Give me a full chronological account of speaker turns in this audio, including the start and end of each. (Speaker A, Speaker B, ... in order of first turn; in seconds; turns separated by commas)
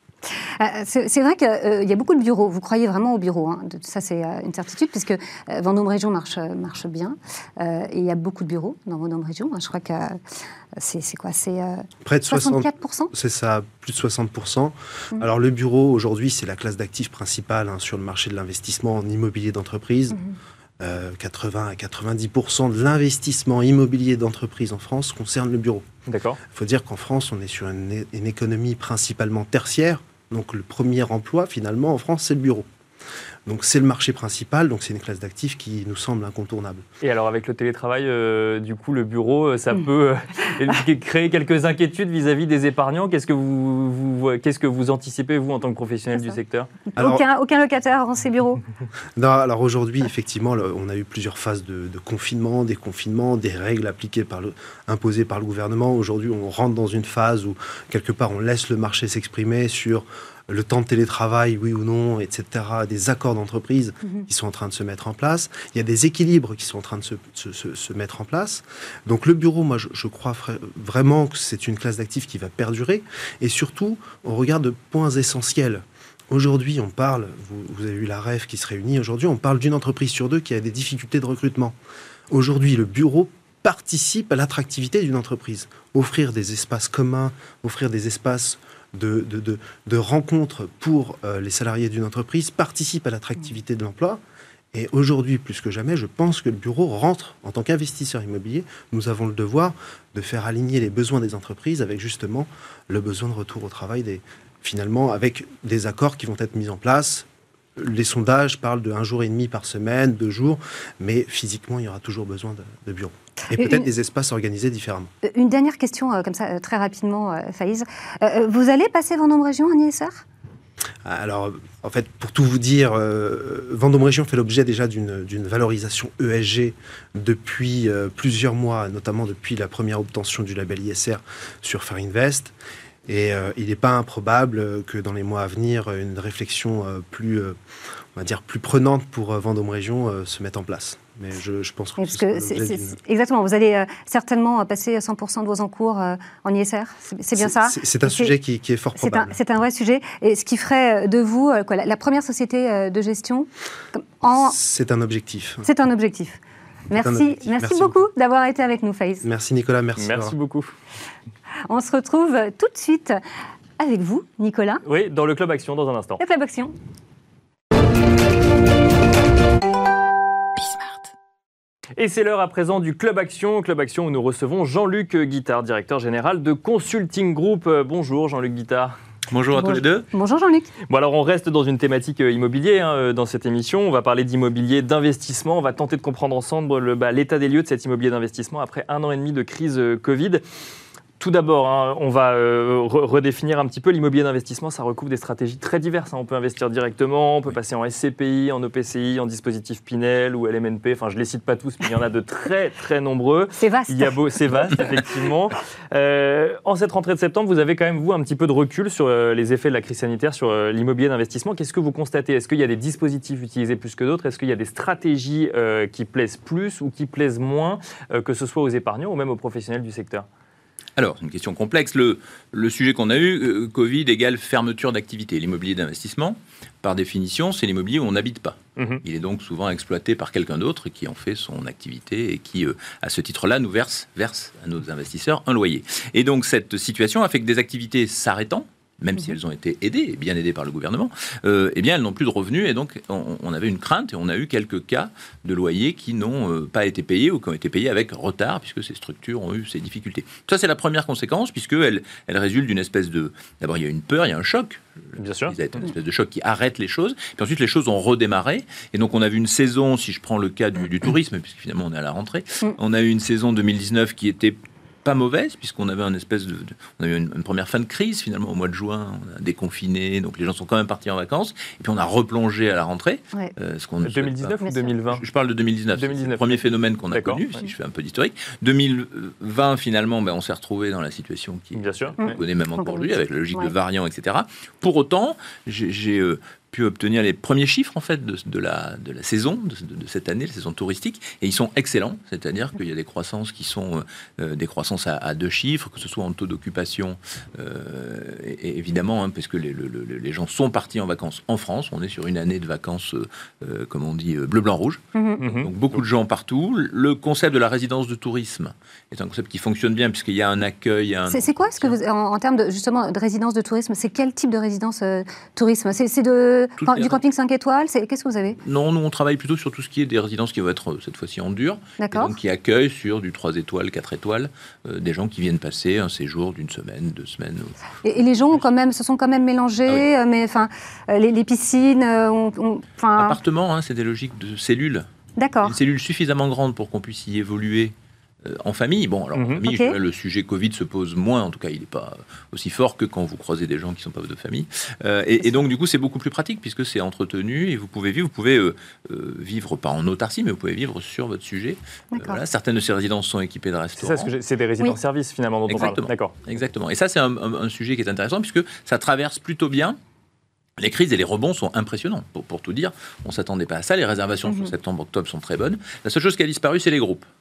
Speaker A: 0.6-10.2, Speaker A: 10.8-13.1, Speaker B: 12.0-20.2, Speaker B: 20.8-25.9, Speaker C: 26.1-26.4, Speaker B: 26.5-32.7, Speaker B: 33.5-36.8, Speaker C: 37.0-46.7, Speaker A: 46.9-48.6, Speaker B: 47.0-47.2, Speaker B: 49.2-81.8, Speaker B: 82.3-94.2, Speaker B: 94.7-115.1, Speaker A: 113.6-113.9, Speaker A: 115.2-120.2, Speaker B: 121.0-132.5, Speaker B: 133.1-137.6, Speaker B: 138.2-143.0, Speaker A: 142.0-148.4, Speaker B: 147.4-149.3, Speaker A: 149.0-154.6, Speaker B: 154.3-155.7, Speaker A: 155.6-159.3, Speaker B: 157.0-157.9, Speaker B: 159.2-160.4, Speaker C: 160.0-160.7, Speaker A: 161.7-163.2, Speaker A: 163.8-164.8, Speaker C: 164.8-166.2, Speaker A: 166.2-166.7, Speaker C: 172.0-179.0, Speaker D: 179.3-180.1, Speaker A: 179.5-180.7, Speaker C: 180.9-190.4, Speaker C: 191.2-220.3, Speaker A: 203.6-204.2, Speaker D: 221.0-274.6, Speaker C: 228.8-229.0, Speaker C: 255.2-255.6, Speaker C: 274.0-275.2, Speaker D: 275.1-305.0, Speaker C: 275.9-277.5, Speaker C: 281.8-282.4, Speaker A: 282.2-283.7, Speaker A: 305.1-305.4, Speaker C: 305.4-305.7, Speaker D: 305.5-312.0, Speaker A: 311.3-318.6, Speaker D: 316.8-317.2, Speaker D: 318.6-328.6, Speaker A: 322.0-322.3, Speaker A: 328.0-333.4, Speaker D: 333.1-335.1, Speaker A: 335.4-335.8, Speaker D: 335.6-354.3, Speaker C: 339.3-339.6, Speaker A: 339.6-340.0, Speaker A: 352.1-352.4, Speaker C: 354.0-356.4, Speaker D: 355.7-360.0, Speaker D: 360.8-367.3